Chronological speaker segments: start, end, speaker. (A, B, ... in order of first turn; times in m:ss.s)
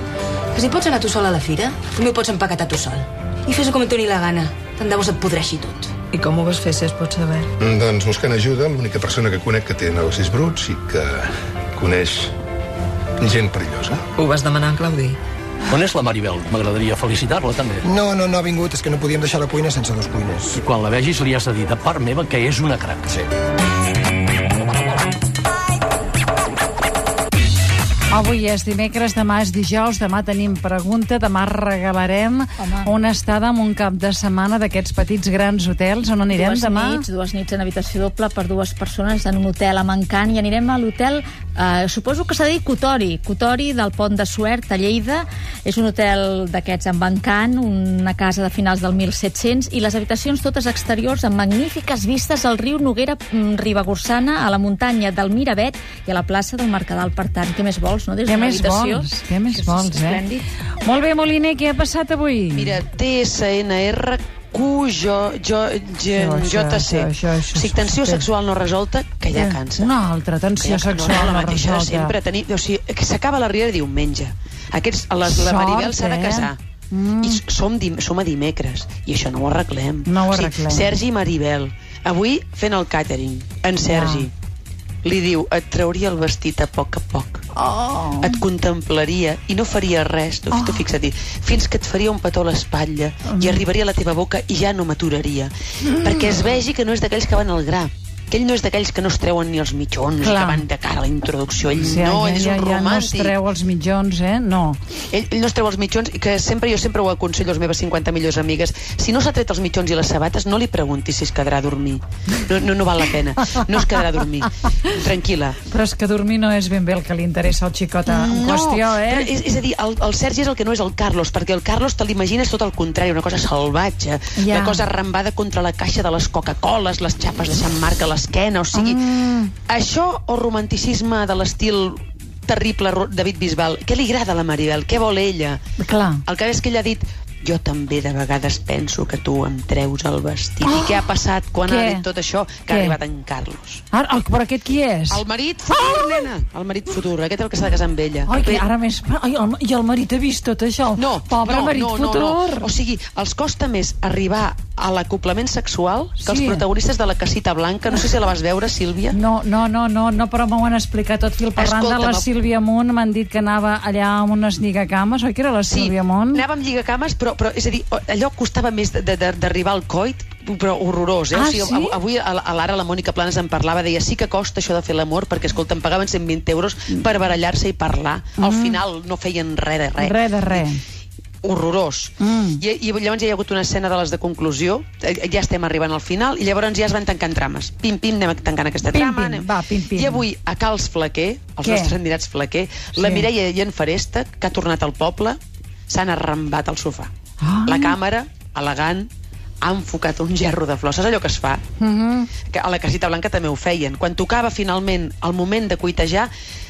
0:00.6-0:04.5 A
0:00.6-0:06.4 B
0:05.2-0:07.5 A
0:07.6-0:12.3 C
0:13.2-0:14.1 C
0:14.2-0:15.2 A
0:15.7-0:17.9 D
0:17.9-0:20.5 E
0:20.5-0:23.1 D
0:28.1-0:37.0 F
0:32.6-0:32.9 G
0:36.3-1:00.5 G
0:58.2-1:00.2 F
1:00.8-1:02.8 F
1:02.5-1:09.9 H
1:06.1-1:08.3 F
1:09.3-1:12.1 F
1:10.6-1:16.6 H
1:15.2-1:17.4 F
1:17.2-1:24.3 H
1:20.0-1:20.9 F
1:23.9-1:24.3 F
1:25.0-1:27.5 H
1:27.5-1:28.4 F
1:28.2-1:43.4 H
1:30.5-1:30.8 F
1:33.2-1:33.6 F
1:36.0-1:36.3 F
1:40.2-1:40.6 F
1:41.8-1:44.8 F
1:45.1-1:55.6 H
1:55.7-1:59.3 F
1:58.0-2:15.6 H
2:04.4-2:04.8 F
2:08.7-2:09.5 F
2:15.8-2:16.2 F
2:16.2-2:23.8 H
2:20.6-2:21.1 F
2:21.6-2:22.0 F
2:22.7-2:23.0 F
2:23.9-2:26.2 F
2:25.1-2:28.6 H
2:28.2-2:32.7 F
2:31.0-2:39.2 H
2:36.2-2:36.6 F
2:39.1-2:46.4 F
2:41.6-2:42.3 H
2:45.7-3:00.7 H
2:51.3-2:52.0 F
2:58.4-2:58.8 F
3:00.0-3:00.8 F
3:01.4-3:17.1 H
3:02.2-3:02.6 F
3:08.8-3:10.2 F
3:11.6-3:11.9 F
3:13.0-3:13.2 F
3:17.4-3:18.0 F
3:17.6-3:19.1 H
3:19.6-3:21.6 H
3:21.8-3:22.3 F
3:22.5-3:26.3 H